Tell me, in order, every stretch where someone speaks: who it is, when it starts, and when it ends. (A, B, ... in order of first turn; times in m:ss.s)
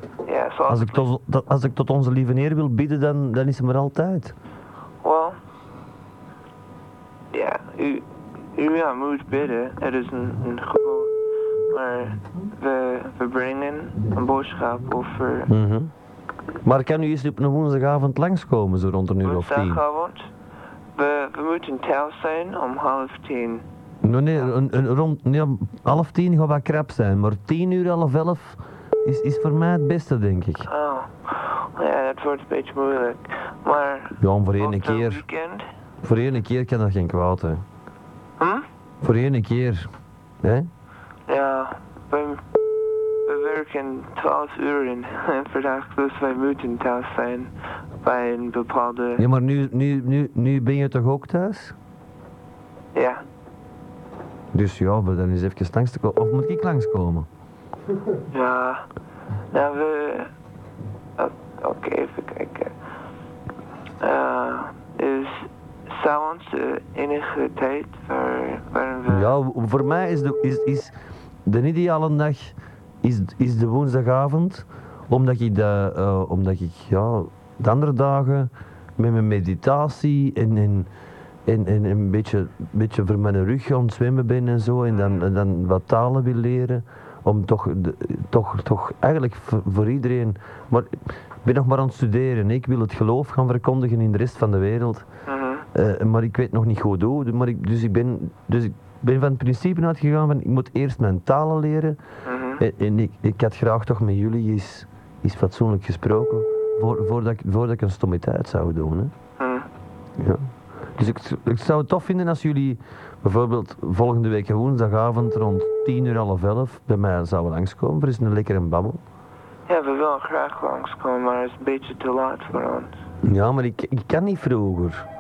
0:00.2-0:01.1 A
0:00.7-0:04.4 B
0:05.0-0:05.4 A
0:07.3-0:11.1 A
0:11.7-0:15.5 A
0:15.5-0:15.9 B
0:16.6-0:19.8 B
0:19.2-0:20.3 A
0:21.0-0:23.6 A
0:24.0-0:30.6 B
0:30.7-0:35.6 A
0:34.2-0:35.2 B
0:36.0-0:37.6 B
0:38.4-0:38.7 A
0:39.0-0:39.9 B
0:41.3-0:42.4 A
0:43.3-0:49.2 A
0:49.2-0:51.7 B
0:52.9-0:53.2 A
0:54.5-0:57.3 B
0:58.3-0:58.8 A
0:59.5-1:00.3 A
1:01.2-1:02.7 A
1:04.0-1:09.3 A
1:09.1-1:10.9 B
1:11.5-1:20.9 B
1:21.5-1:35.0 B
1:35.3-1:35.7 A
1:35.7-1:42.0 B
1:42.2-1:42.6 A
1:42.6-1:49.1 B
1:49.4-1:49.7 A
1:50.2-1:50.4 B
1:51.0-1:59.0 B
1:59.7-2:03.0 A
2:03.2-2:05.0 B